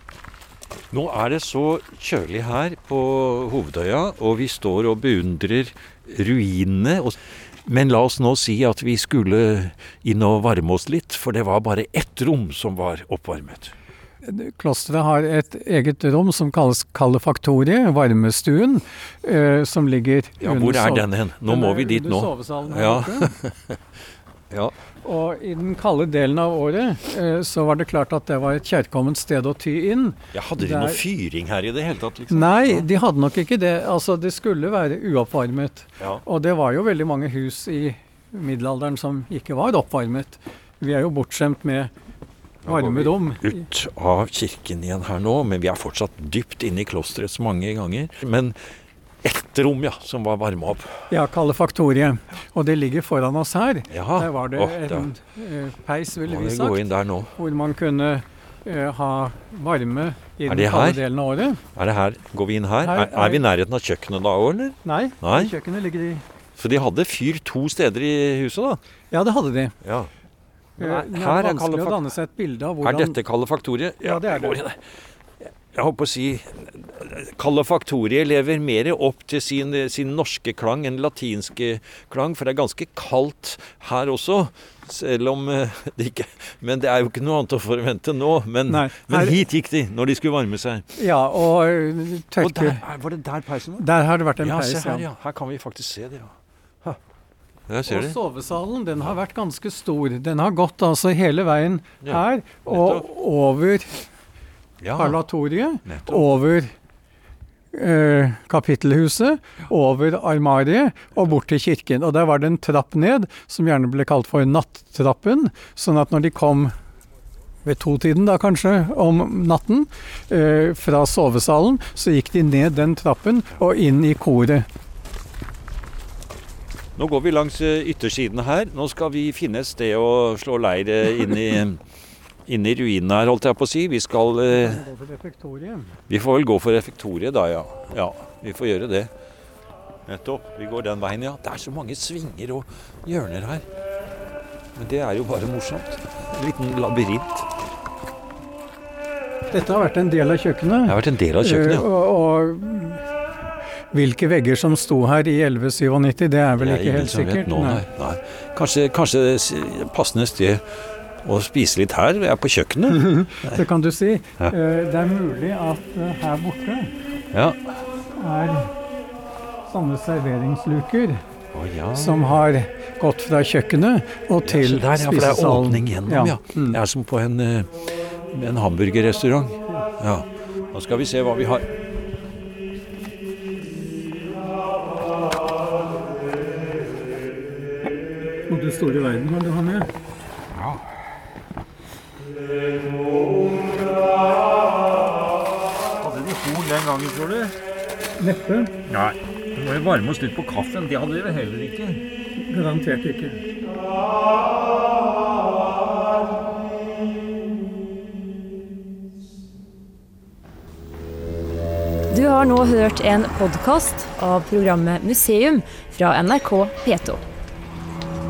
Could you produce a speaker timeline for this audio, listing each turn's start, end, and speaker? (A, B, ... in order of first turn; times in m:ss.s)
0:00.9-0:13.7 A
0:14.2-0:23.3 B
0:20.4-0:23.8 A
0:25.0-0:31.0 B
0:30.3-0:32.9 A
0:32.3-0:41.9 B
0:42.6-0:48.6 A
0:42.6-0:43.6 B
0:49.2-0:51.1 A
0:51.1-1:01.6 B
0:53.9-0:55.1 A
0:56.2-0:57.3 A
1:00.5-1:01.0 A
1:01.7-1:05.5 A
1:02.8-1:03.4 B
1:04.8-1:06.2 B
1:06.6-1:08.8 A
1:09.1-1:09.8 B
1:09.8-1:10.1 A
1:10.8-1:12.1 A
1:10.8-1:13.2 B
1:12.8-1:14.8 A
1:14.0-1:14.6 B
1:15.4-1:30.9 A
1:28.7-1:29.4 B
1:30.9-1:32.8 B
1:32.4-1:33.9 A
1:33.8-1:35.0 B
1:34.4-1:37.0 A
1:37.7-1:38.2 A
1:37.8-1:44.0 B
1:42.0-1:43.0 A
1:44.8-1:45.2 A
1:44.9-1:46.7 B
1:45.8-1:46.3 A
1:47.7-1:56.7 B
1:57.6-2:04.7 B
2:07.0-2:11.8 A
2:12.4-2:14.8 A
2:14.5-2:16.0 B
2:16.1-2:19.1 A
2:20.0-2:23.7 A
2:24.7-2:27.5 A
2:29.5-2:33.0 B
2:30.8-2:31.8 A
2:33.9-2:37.8 B
2:36.6-2:40.6 A
2:41.2-2:43.6 A
2:42.9-2:46.9 B
2:47.3-2:47.6 A
2:48.2-2:48.7 B
2:49.7-2:51.2 B
2:51.5-2:52.3 A
2:51.9-2:56.8 B
2:54.4-3:01.7 A
3:08.5-3:09.9 B
3:10.5-3:10.9 A
3:16.0-3:17.6 A
3:18.2-3:18.7 B
3:18.9-3:22.0 A
3:22.4-3:23.4 B
3:32.1-3:37.2 C